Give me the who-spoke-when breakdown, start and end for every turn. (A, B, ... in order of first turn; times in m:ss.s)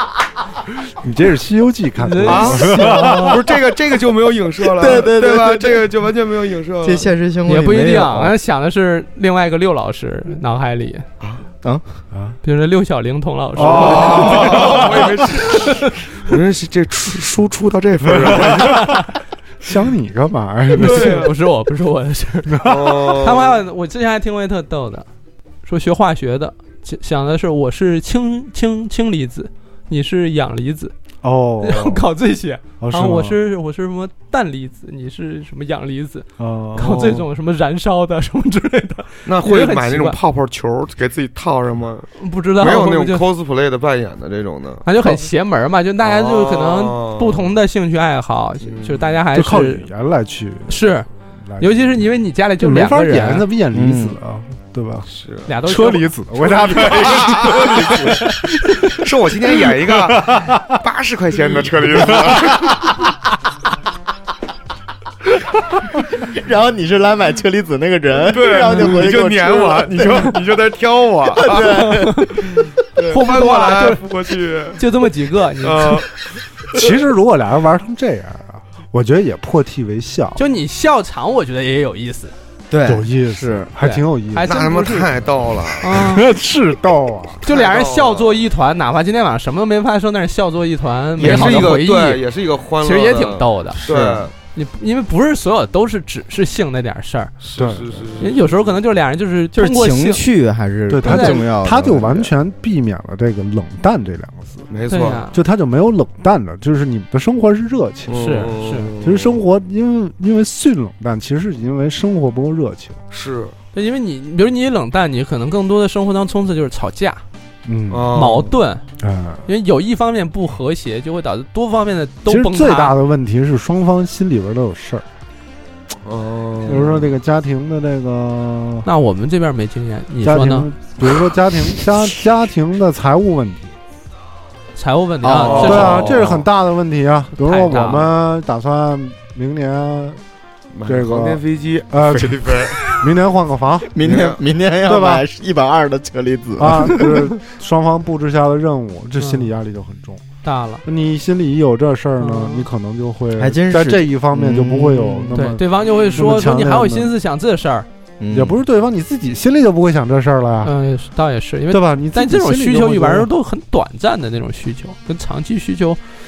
0:00.9-0:03.4 A
0:02.0-0:03.2 B
0:02.2-0:07.1 C
0:02.6-0:03.4 D
0:04.6-0:05.9 D
0:06.8-0:08.3 D
0:07.4-0:11.0 B
0:12.1-0:12.4 A
0:12.4-0:15.9 B
0:13.6-0:15.2 A
0:13.6-0:19.0 C
0:18.0-0:19.0 A
0:19.6-0:21.3 A
0:20.7-0:25.1 B
0:20.8-0:21.3 C
0:22.5-0:22.9 A
0:22.6-0:23.6 C
0:25.6-0:30.9 B
0:31.2-0:32.0 A
0:31.6-0:40.2 B
0:32.8-0:33.4 A
0:36.4-0:37.2 A
0:36.8-0:37.2 C
0:39.3-0:44.8 C
0:42.2-0:43.3 B
0:44.8-0:49.9 B
0:46.0-0:47.5 C
0:48.6-0:49.2 C
0:49.3-0:50.9 A
0:50.7-0:51.1 B
0:51.4-0:52.0 A
0:51.6-0:53.4 B
0:52.6-0:55.1 A
0:53.7-0:54.2 D
0:55.1-0:55.5 C
0:55.4-0:56.1 B
0:55.6-1:00.8 A
0:56.4-1:02.9 C
0:56.8-0:57.3 B
1:01.4-1:02.9 A
1:06.2-1:10.3 D
1:08.2-1:12.0 C
1:11.3-1:12.4 D
1:11.8-1:14.0 B
1:12.9-1:14.8 C
1:14.7-1:16.0 B
1:15.6-1:17.0 C
1:16.7-1:20.4 A
1:20.4-1:22.3 B
1:22.7-1:23.7 D
1:22.8-1:24.5 A
1:23.8-1:25.2 B
1:24.4-1:26.0 C
1:25.8-1:26.3 B
1:25.9-1:27.4 A
1:27.4-1:32.2 B
1:27.4-1:28.4 C
1:31.2-1:34.3 C
1:31.2-1:31.7 D
1:32.8-1:33.8 B
1:33.8-1:34.3 A
1:34.5-1:37.3 B
1:37.4-1:38.6 C
1:37.6-1:38.1 A
1:38.2-1:40.2 B
1:39.5-1:42.3 D
1:40.9-1:44.6 A
1:41.0-1:41.4 B
1:44.7-1:45.3 C
1:44.9-1:45.4 B
1:45.3-1:48.4 A
1:48.1-1:49.4 C
1:48.1-1:48.9 B
1:49.0-1:53.0 A
1:53.1-1:53.5 C
1:53.7-1:57.2 B
1:57.6-1:58.1 A
1:57.9-1:58.5 C
1:58.1-1:58.8 B
1:59.0-1:59.4 A
1:59.4-2:03.0 B
2:02.3-2:05.0 A
2:06.0-2:07.1 C
2:06.6-2:08.9 A
2:08.8-2:10.7 B
2:10.2-2:13.7 A
2:14.7-2:16.3 B
2:15.2-2:15.9 D
2:15.3-2:16.4 C
2:15.6-2:20.2 A
2:17.4-2:18.1 B
2:20.7-2:22.8 C
2:20.8-2:24.2 A
2:23.9-2:27.2 D
2:24.0-2:24.4 C
2:24.8-2:25.2 A
2:26.6-2:30.2 A
2:29.2-2:29.5 B
2:30.4-2:30.8 B
2:30.8-2:37.1 A
2:32.2-2:32.6 B
2:33.4-2:35.4 D
2:35.3-2:37.9 B
2:35.8-2:36.1 C
2:38.2-2:38.6 D
2:38.3-2:40.7 A
2:40.6-2:46.0 B
2:41.7-2:43.3 A